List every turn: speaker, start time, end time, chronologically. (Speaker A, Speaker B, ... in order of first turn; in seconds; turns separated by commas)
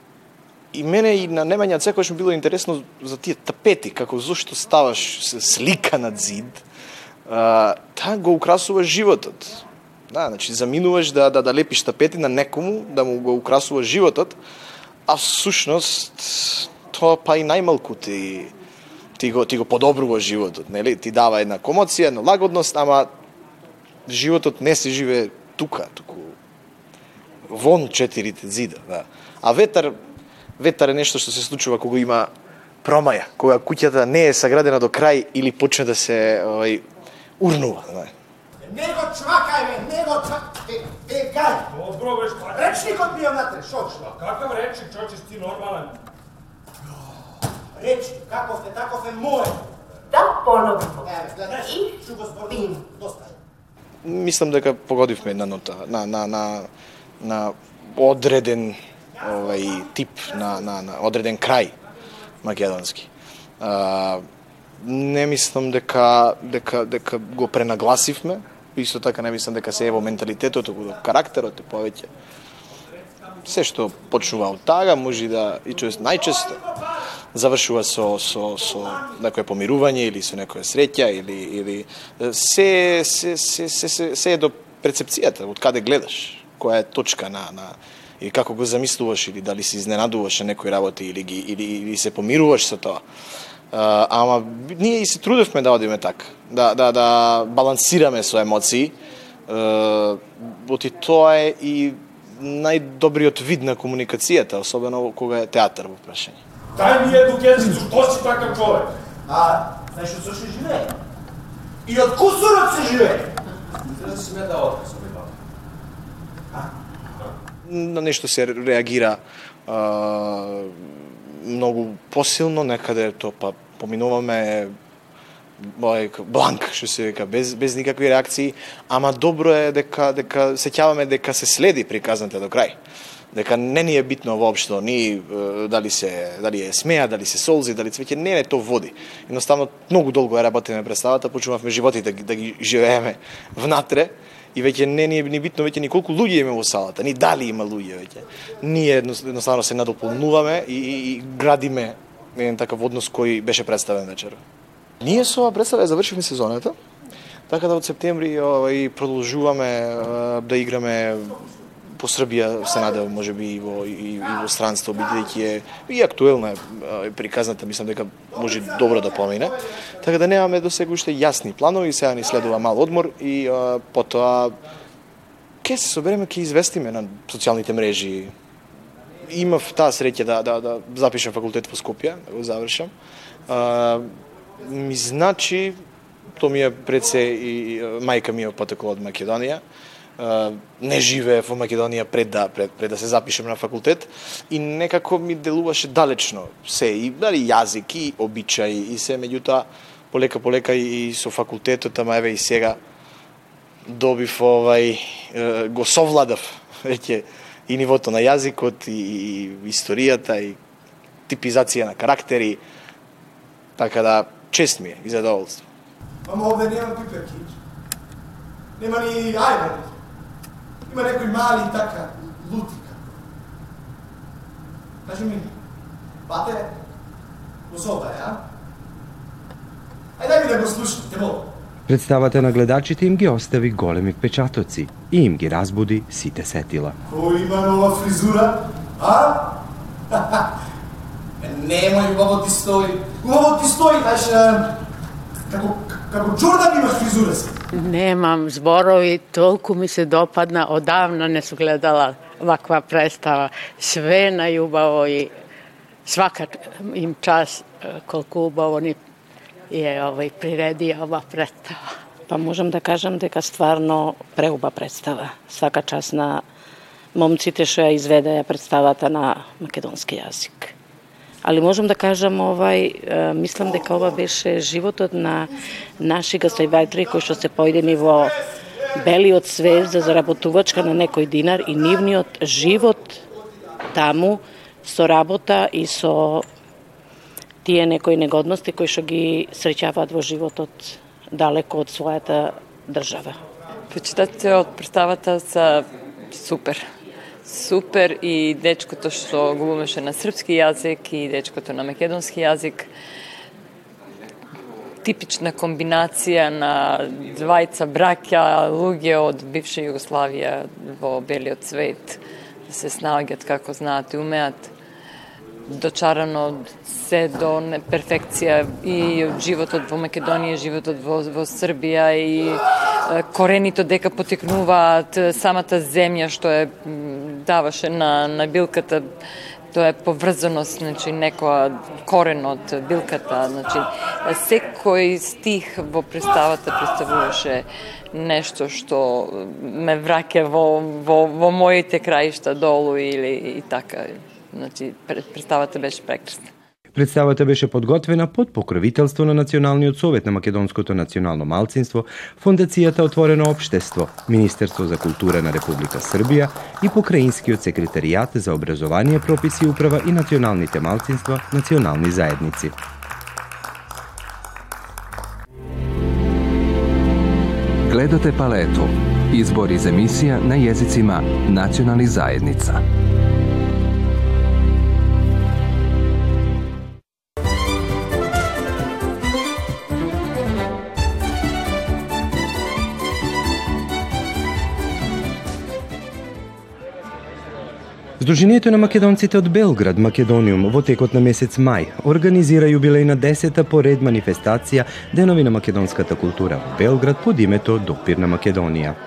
Speaker A: 0.7-6.6, Speaker A: 7.3-14.4, Speaker A: 15.1-18.5, Speaker A: 19.2-23.1, Speaker A: 24.1-26.4, Speaker A: 27.5-30.0, Speaker A: 30.6-32.3, Speaker A: 32.8-36.9, Speaker A: 37.4-38.1, Speaker B: 38.6-41.8, Speaker C: 41.7-42.5, Speaker B: 42.4-44.2, Speaker C: 44.3-45.9, Speaker B: 47.7-49.6, Speaker B: 51.0-53.4, Speaker A: 54.0-56.7, Speaker A: 57.2-61.8, Speaker A: 62.4-64.2, Speaker A: 64.8-72.1, Speaker A: 73.5-76.6, Speaker A: 77.3-93.0, Speaker A: 93.7-99.0, Speaker A: 99.5-106.4, Speaker B: 106.8-107.1, Speaker C: 106.8-108.9, Speaker B: 109.3-110.9, Speaker B: 111.8-113.3, Speaker B: 113.9-115.3, Speaker A: 117.7-124.7, Speaker A: 125.6-132.8, Speaker A: 133.3-154.4, Speaker A: 155.0-156.8, Speaker A: 157.5-161.4, Speaker A: 162.0-174.6, Speaker A: 175.6-178.3, Speaker A: 179.3-182.9, Speaker A: 183.5-185.8, Speaker A: 186.3-189.6, Speaker A: 190.2-202.8, Speaker A: 203.9-210.6, Speaker A: 211.3-212.6, Speaker A: 213.8-215.7, Speaker B: 216.2-217.6, Speaker B: 218.8-219.9, Speaker B: 220.9-223.1, Speaker B: 225.1-225.5, Speaker B: 226.3-226.7, Speaker B: 227.7-228.4, Speaker B: 230.2-231.5, Speaker D: 231.9-237.0, Speaker B: 237.1-239.6, Speaker B: 240.1-240.4, Speaker B: 241.4-244.8, Speaker B: 245.5-247.6, Speaker E: 247.7-255.3, Speaker E: 256.1-259.0, Speaker E: 259.7-261.9, Speaker F: 262.3-266.4, Speaker F: 267.1-270.7, Speaker F: 271.4-278.4, Speaker F: 278.9-283.2, Speaker F: 283.9-286.5, Speaker F: 287.6-293.4, Speaker G: 293.9-296.8, Speaker G: 297.4-302.9, Speaker G: 305.0-314.7, Speaker G: 315.7-329.1, Speaker G: 329.7-346.5, Speaker D: 346.9-362.8, Speaker H: 367.8-372.8, Speaker D: 388.2-399.0